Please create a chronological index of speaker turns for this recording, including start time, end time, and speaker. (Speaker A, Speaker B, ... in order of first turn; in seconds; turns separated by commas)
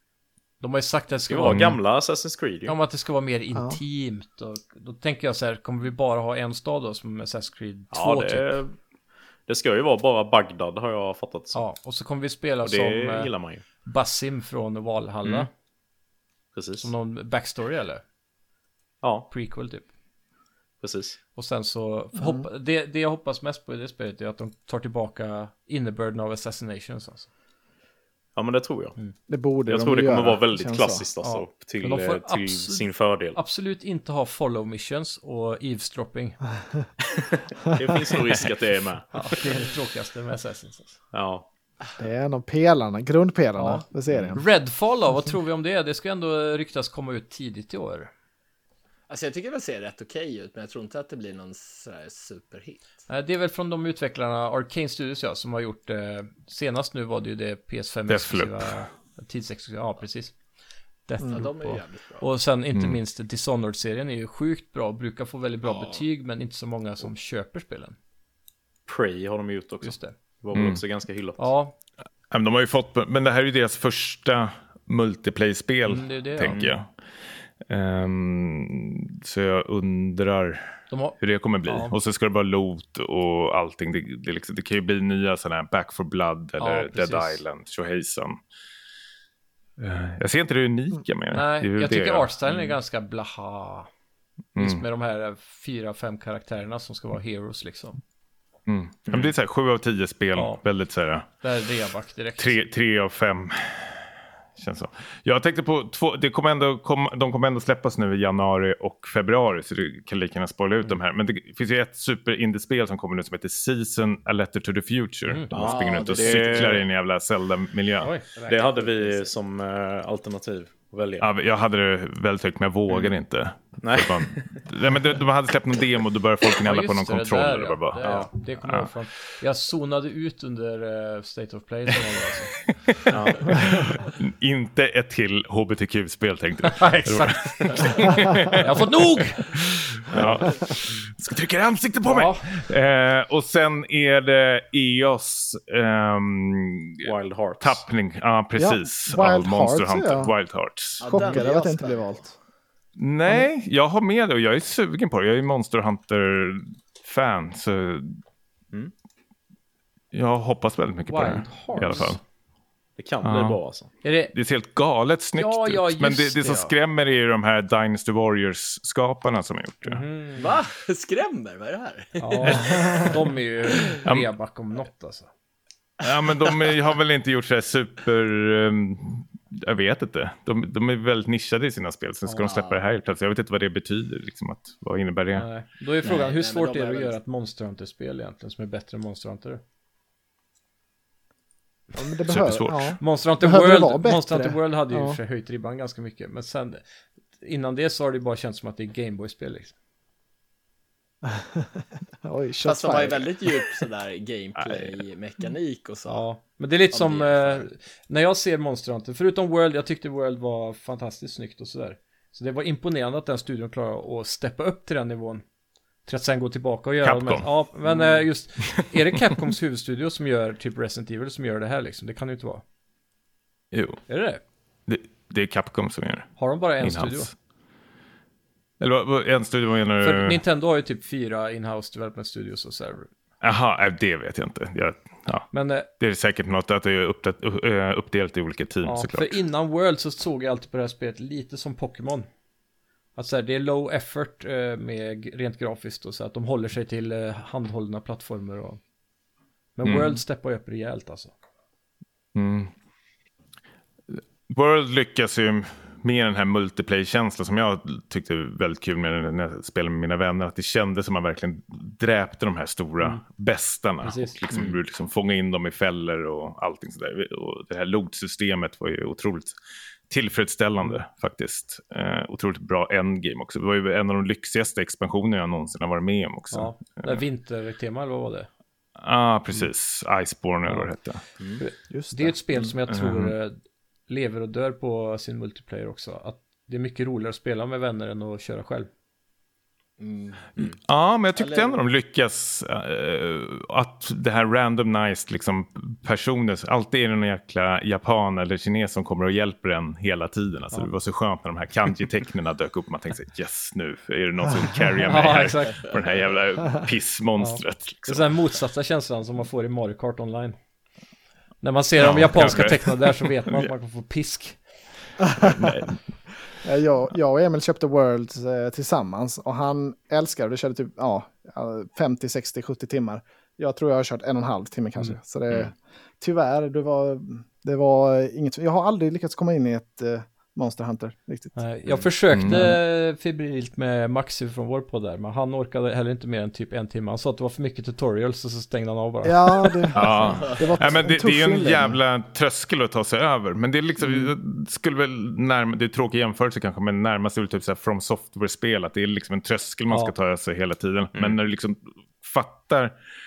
Speaker A: 0.6-1.8, Speaker B: 1.3-2.8, Speaker C: 1.5-1.8, Speaker A: 2.6-8.5, Speaker D: 3.5-3.8, Speaker B: 7.9-8.7, Speaker B: 9.5-11.6, Speaker A: 11.5-13.3, Speaker B: 12.6-13.6, Speaker A: 13.8-15.5, Speaker B: 16.5-16.9, Speaker A: 16.8-18.0, Speaker B: 19.0-19.3, Speaker A: 19.3-19.9, Speaker B: 20.8-21.2, Speaker A: 21.4-27.3, Speaker D: 22.1-22.4, Speaker B: 28.4-28.9, Speaker D: 29.3-31.0, Speaker B: 29.7-33.4, Speaker A: 31.2-36.4, Speaker B: 37.7-39.2, Speaker A: 39.1-41.0, Speaker B: 41.1-41.4, Speaker D: 42.0-44.4, Speaker A: 43.6-48.1, Speaker B: 44.1-44.4, Speaker E: 49.1-52.8, Speaker A: 53.1-60.3, Speaker C: 58.1-58.8, Speaker A: 61.1-68.0, Speaker E: 61.3-62.3, Speaker C: 62.7-63.0, Speaker E: 65.7-66.0, Speaker B: 68.9-71.4, Speaker A: 69.8-70.1, Speaker C: 70.5-70.8, Speaker A: 71.4-71.7, Speaker C: 72.3-76.9, Speaker A: 75.8-76.6, Speaker B: 76.4-76.7, Speaker C: 77.6-88.4, Speaker A: 80.9-81.9, Speaker A: 86.6-87.4, Speaker C: 89.8-92.3, Speaker A: 91.3-93.9, Speaker C: 94.5-94.8, Speaker A: 94.5-98.0, Speaker C: 98.7-101.3, Speaker B: 99.1-99.3, Speaker A: 100.3-100.6, Speaker A: 101.4-102.6, Speaker C: 102.4-118.2, Speaker A: 115.2-115.5, Speaker B: 115.5-116.8, Speaker E: 115.6-116.8, Speaker A: 118.0-118.8, Speaker E: 118.3-119.2, Speaker B: 118.5-121.3, Speaker C: 121.2-128.9, Speaker B: 122.9-123.1, Speaker B: 123.8-124.6, Speaker A: 126.6-132.7, Speaker B: 128.0-128.3, Speaker C: 132.9-151.4, Speaker B: 133.1-133.6, Speaker A: 136.6-139.5, Speaker B: 140.1-140.6, Speaker A: 142.0-142.6, Speaker B: 147.0-147.8, Speaker D: 148.6-150.3, Speaker E: 151.0-152.3, Speaker D: 151.0-152.3, Speaker C: 153.0-158.2, Speaker C: 160.1-162.2, Speaker A: 161.1-162.2, Speaker B: 163.0-163.9, Speaker C: 163.2-163.6, Speaker A: 164.0-164.3, Speaker C: 164.3-170.0, Speaker A: 165.3-166.7, Speaker A: 169.8-170.5, Speaker E: 170.4-173.2, Speaker A: 172.2-175.3, Speaker D: 172.7-173.1, Speaker C: 174.0-174.3, Speaker C: 176.0-185.5, Speaker A: 182.2-182.5, Speaker E: 182.4-182.8, Speaker A: 185.3-189.6, Speaker E: 186.0-187.2, Speaker D: 191.9-195.2, Speaker C: 192.3-193.0, Speaker A: 193.0-196.8, Speaker A: 197.4-199.7, Speaker D: 201.2-203.7, Speaker E: 202.6-206.2, Speaker C: 204.6-204.9, Speaker A: 206.1-215.4, Speaker E: 206.9-207.7, Speaker A: 216.1-222.6, Speaker C: 217.0-217.6, Speaker C: 218.7-219.3, Speaker C: 223.7-224.0, Speaker A: 224.1-224.4, Speaker C: 224.9-227.3, Speaker A: 226.4-227.3, Speaker C: 228.8-230.4, Speaker A: 230.0-233.1, Speaker C: 233.4-239.4, Speaker A: 235.5-235.9, Speaker A: 238.8-242.3, Speaker A: 243.2-248.8, Speaker A: 249.8-251.3, Speaker C: 249.8-250.2, Speaker C: 252.3-252.7, Speaker C: 254.1-269.6, Speaker A: 264.0-264.4, Speaker B: 264.5-264.8, Speaker C: 270.1-277.2, Speaker A: 276.5-278.5, Speaker C: 279.0-281.2, Speaker A: 280.6-280.9, Speaker A: 281.6-288.9, Speaker D: 281.9-282.7, Speaker C: 282.9-283.3, Speaker E: 290.0-290.5, Speaker C: 290.6-308.4, Speaker E: 291.4-291.8, Speaker A: 305.0-305.8, Speaker A: 307.4-310.6, Speaker A: 311.6-314.6, Speaker C: 312.0-313.7, Speaker D: 315.2-315.8, Speaker C: 315.4-316.0, Speaker D: 316.6-331.6, Speaker A: 331.5-340.2, Speaker C: 332.3-332.8, Speaker D: 339.2-342.0, Speaker C: 339.9-352.9, Speaker D: 344.0-344.3, Speaker A: 349.9-350.1